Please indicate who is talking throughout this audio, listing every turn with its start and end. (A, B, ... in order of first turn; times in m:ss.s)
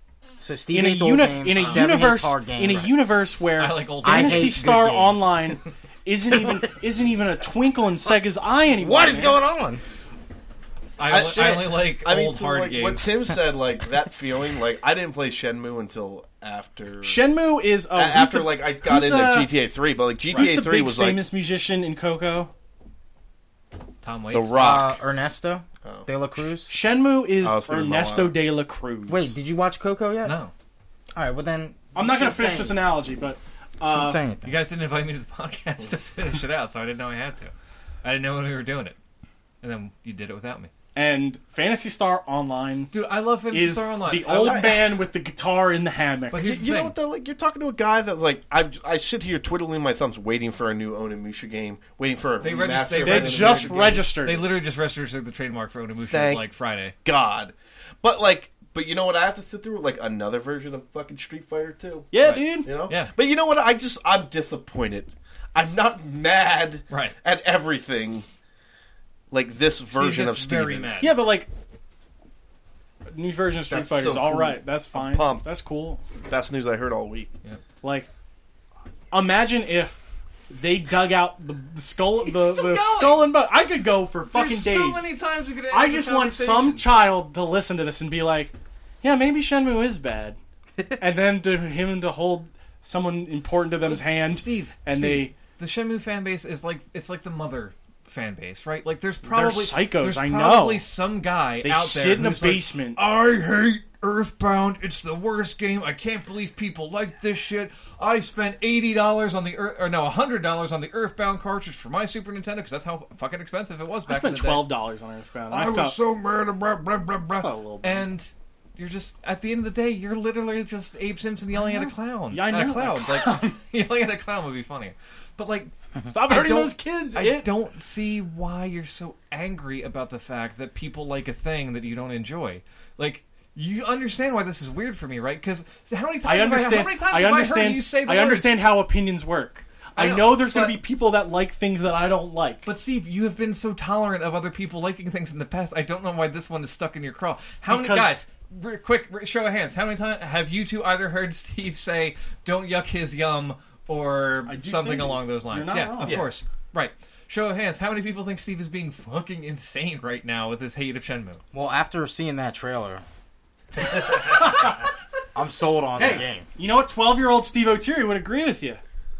0:00.4-0:03.0 A
0:00.7-0:09.4 B
0:01.5-0:02.1 C
0:03.6-0:04.9 C
0:04.0-0:05.6 A
0:08.8-0:09.8 A
0:11.0-0:13.1 C
0:11.0-0:17.2 D
0:11.0-0:11.7 A
0:17.0-0:19.5 B
0:17.9-0:21.3 D
0:20.3-0:20.6 C
0:20.3-0:22.5 B
0:24.0-0:24.6 C
0:24.3-0:25.0 D
0:24.5-0:26.7 A
0:26.7-0:29.3 B
0:27.4-0:28.4 D
0:29.1-0:30.4 A
0:30.2-0:30.5 C
0:31.1-0:32.8 A
0:31.9-0:34.2 B
0:33.8-0:34.6 A
0:34.4-0:37.5 C
0:38.0-0:39.0 C
0:39.6-0:40.7 C
0:40.9-0:42.9 B
0:42.9-0:44.9 C
0:43.5-0:46.5 B
0:44.3-0:44.9 D
0:46.3-0:47.0 C
0:46.4-0:54.0 D
0:52.4-0:56.9 C
0:53.0-0:54.5 B
0:56.0-0:56.4 D
0:57.0-1:08.2 D
1:02.1-1:02.7 B
1:02.2-1:03.1 C
1:06.9-1:07.2 C
1:09.3-1:11.0 D
1:09.9-1:11.2 C
1:11.0-1:11.5 B
1:13.1-1:16.0 B
1:13.7-1:17.3 D
1:17.8-1:18.1 B
1:19.1-1:25.1 B
1:22.2-1:23.4 C
1:24.3-1:26.9 C
1:25.7-1:30.4 B
1:31.0-1:35.3 B
1:33.8-1:54.7 C
1:39.2-1:40.9 B
1:41.6-1:43.0 B
1:54.0-1:56.0 B
1:55.5-2:18.6 C
1:57.4-1:58.1 B
2:01.5-2:03.6 B
2:06.0-2:07.5 B
2:16.2-2:22.7 B
2:20.0-2:20.8 C
2:22.6-2:41.4 C
2:27.7-2:28.2 B
2:34.4-2:36.2 B
2:36.0-2:36.3 D
2:41.5-2:43.0 A
2:44.3-2:44.8 B
2:45.3-2:46.4 A
2:46.0-2:48.8 B